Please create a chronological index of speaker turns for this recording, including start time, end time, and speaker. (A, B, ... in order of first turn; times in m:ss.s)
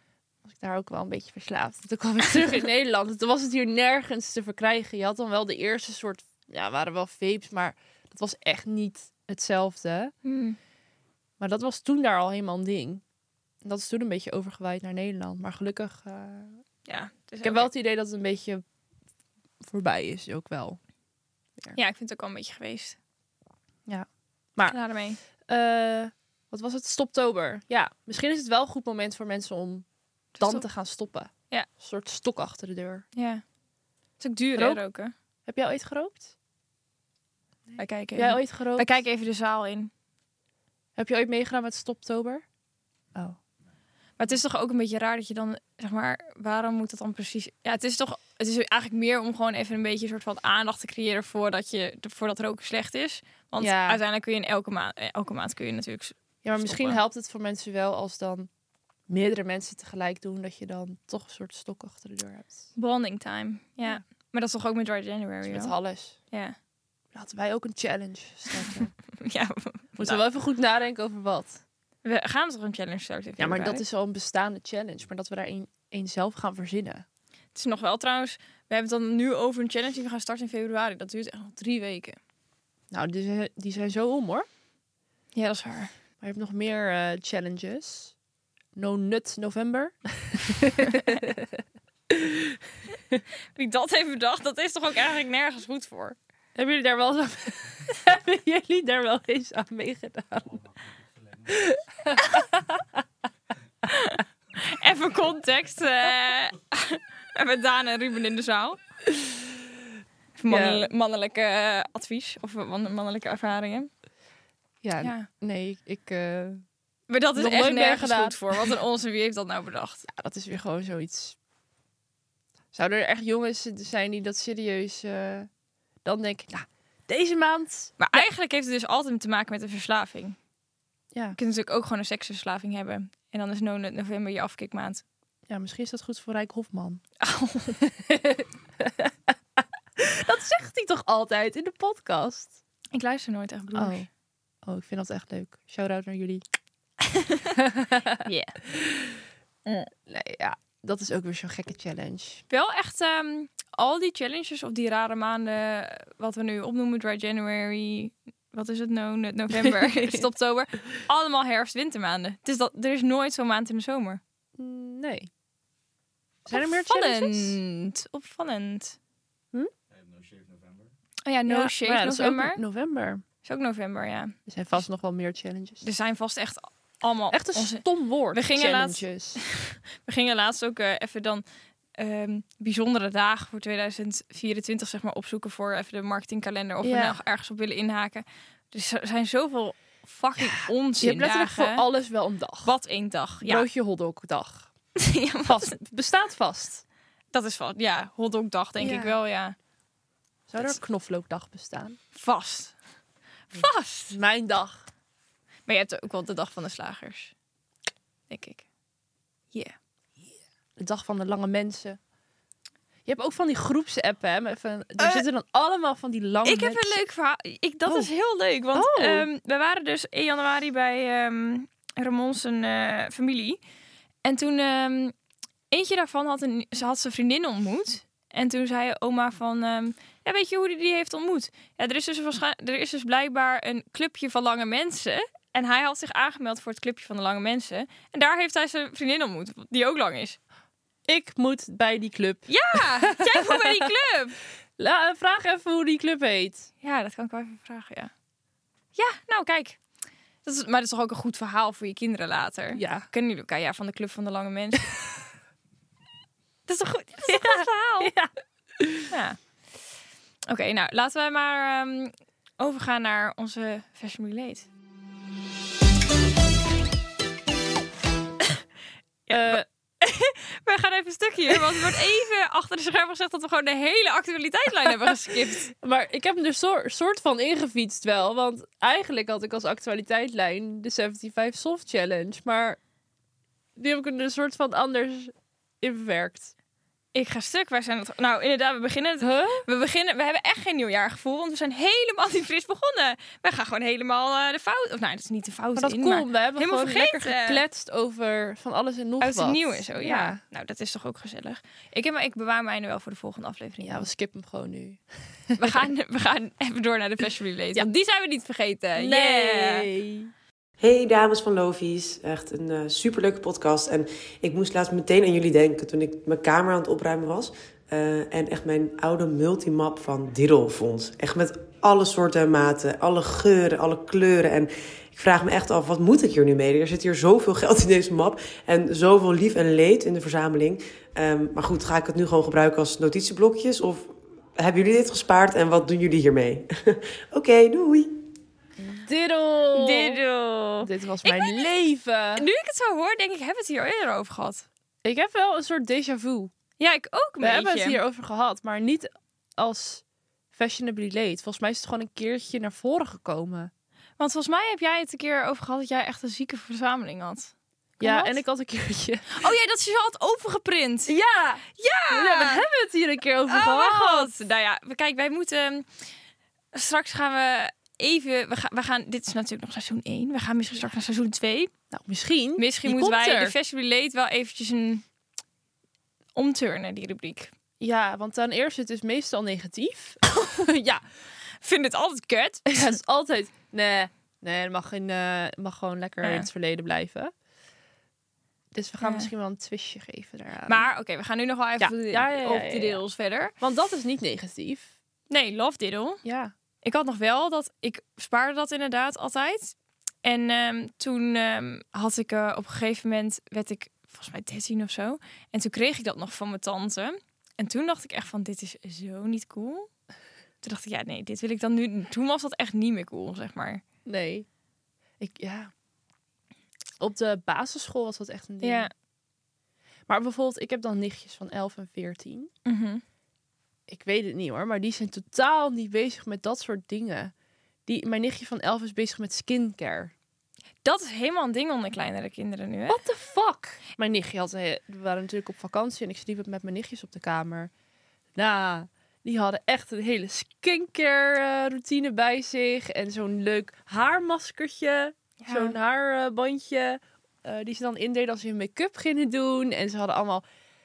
0:00.4-0:10.1 A
0:10.2-0:10.6 B
0:11.4-0:13.0 A
0:13.6-0:16.6 A
0:16.9-0:17.7 B
0:17.4-0:18.6 A
0:19.6-0:20.8 A
0:21.8-0:23.0 B
0:23.9-0:24.8 A
0:24.7-0:25.2 B
0:25.4-0:29.9 A
0:30.4-0:30.6 B
0:30.4-0:33.0 A
0:33.2-0:33.4 B
0:34.2-0:35.1 B
0:35.5-0:36.3 A
0:37.7-0:39.0 A
0:37.8-0:39.9 B
0:41.0-0:42.4 A
0:44.2-0:57.0 B
0:53.6-0:54.0 A
0:56.4-0:58.5 A
0:59.1-1:02.6 A
1:02.8-1:05.7 B
1:05.4-1:06.2 A
1:07.1-1:08.9 A
1:08.6-1:10.2 B
1:10.0-1:11.6 A
1:12.0-1:13.8 B
1:13.4-1:17.0 A
1:17.6-1:22.2 B
1:22.9-1:24.5 A
1:25.4-1:25.9 B
1:26.2-1:28.1 A
1:28.7-1:33.2 A
1:30.9-1:31.2 B
1:33.6-1:36.2 B
1:36.6-1:40.6 A
1:40.6-1:41.7 C
1:41.5-1:43.0 A
1:43.8-1:48.8 B
1:49.1-1:49.6 A
1:50.4-1:53.9 B
1:50.5-1:50.9 A
1:54.8-1:56.6 A
1:55.0-1:55.3 B
1:57.1-2:00.1 B
1:57.4-1:58.8 A
2:00.0-2:01.4 A
2:02.7-2:05.5 A
2:06.0-2:08.2 A
2:08.0-2:10.4 B
2:11.4-2:15.0 B
2:15.5-2:17.0 A
2:17.2-2:17.8 B
2:17.8-2:22.6 A
2:22.9-2:24.1 B
2:23.8-2:24.1 A
2:24.6-2:26.4 A
2:27.0-2:27.6 B
2:27.6-2:29.2 A
2:28.2-2:28.6 B
2:30.1-2:32.4 A
2:32.5-2:44.2 B
2:39.6-2:40.2 A
2:44.6-2:45.3 A
2:46.5-2:47.6 A
2:46.5-2:49.0 B
2:49.9-2:50.9 C
2:51.3-2:52.6 B
2:51.5-2:53.2 A
2:53.4-2:54.4 B
2:54.5-2:55.8 A
2:55.8-3:01.4 B
2:57.3-2:59.4 A
3:02.0-3:11.8 B
3:06.8-3:07.2 A
3:10.4-3:12.7 A
3:12.6-3:13.7 B
3:13.4-3:14.7 A
3:15.0-3:15.8 B
3:15.5-3:16.8 A
3:17.3-3:19.6 B
3:18.8-3:19.2 A
3:20.5-3:22.0 A
3:22.1-3:22.8 B
3:23.5-3:24.2 B
3:24.1-3:24.8 A
3:25.7-3:27.3 B
3:28.3-3:28.6 B
3:30.8-3:32.0 A
3:33.1-3:37.0 A
3:35.0-3:35.2 B
3:36.4-3:43.6 B
3:37.9-3:38.1 A
3:38.7-3:39.3 A
3:44.2-3:45.2 B
3:45.7-4:00.4 B
4:01.1-4:03.9 A
4:02.5-4:04.4 B
4:04.8-4:06.7 A
4:06.8-4:08.1 B
4:09.0-4:09.8 B
4:10.4-4:14.9 B
4:12.7-4:13.1 A
4:16.7-4:18.1 B
4:17.3-4:19.1 A
4:19.1-4:19.4 B
4:20.5-4:24.7 B
4:29.3-4:35.7 B
4:29.3-4:29.6 A
4:31.5-4:31.9 A
4:35.1-4:42.8 A
4:43.8-4:46.5 A
4:47.1-4:57.6 B
4:49.2-4:49.6 A
4:55.8-5:00.4 A
4:59.2-5:04.1 B
5:03.8-5:05.9 A
5:05.6-5:09.9 B
5:09.0-5:10.3 A
5:10.8-5:38.3 D
5:38.8-5:40.2 A
5:39.7-5:41.6 B
5:40.8-5:42.5 A
5:42.4-5:44.7 B
5:45.0-5:46.5 A
5:46.8-5:48.0 B
5:47.4-5:53.7 A
5:54.2-5:58.4 B
5:58.0-5:59.5 A
5:59.3-6:01.1 B
6:01.1-6:04.3 A
6:01.7-6:02.6 B
6:03.5-6:05.9 B
6:06.7-6:11.7 B
6:11.9-6:13.6 A
6:12.6-6:15.0 B
6:16.4-6:17.5 B
6:17.8-6:21.0 A
6:21.6-6:22.9 B
6:22.7-6:27.3 A
6:26.2-6:26.5 B
6:28.7-6:30.9 A
6:29.0-6:29.3 B
6:30.7-6:33.6 B
6:31.8-6:33.0 A
6:33.6-6:34.9 A
6:35.3-6:36.2 B
6:36.2-6:36.5 A
6:36.8-6:49.9 B
6:50.6-6:53.8 B
6:54.0-6:54.5 A
6:55.2-6:55.7 A
6:57.0-6:58.9 A
6:58.6-6:58.9 B
7:00.1-7:02.5 A
7:02.6-7:03.0 B
7:03.9-7:07.3 A
7:07.9-7:10.1 A
7:10.8-7:13.0 B
7:12.9-7:17.7 A
7:18.4-7:30.4 A
7:25.4-7:25.8 B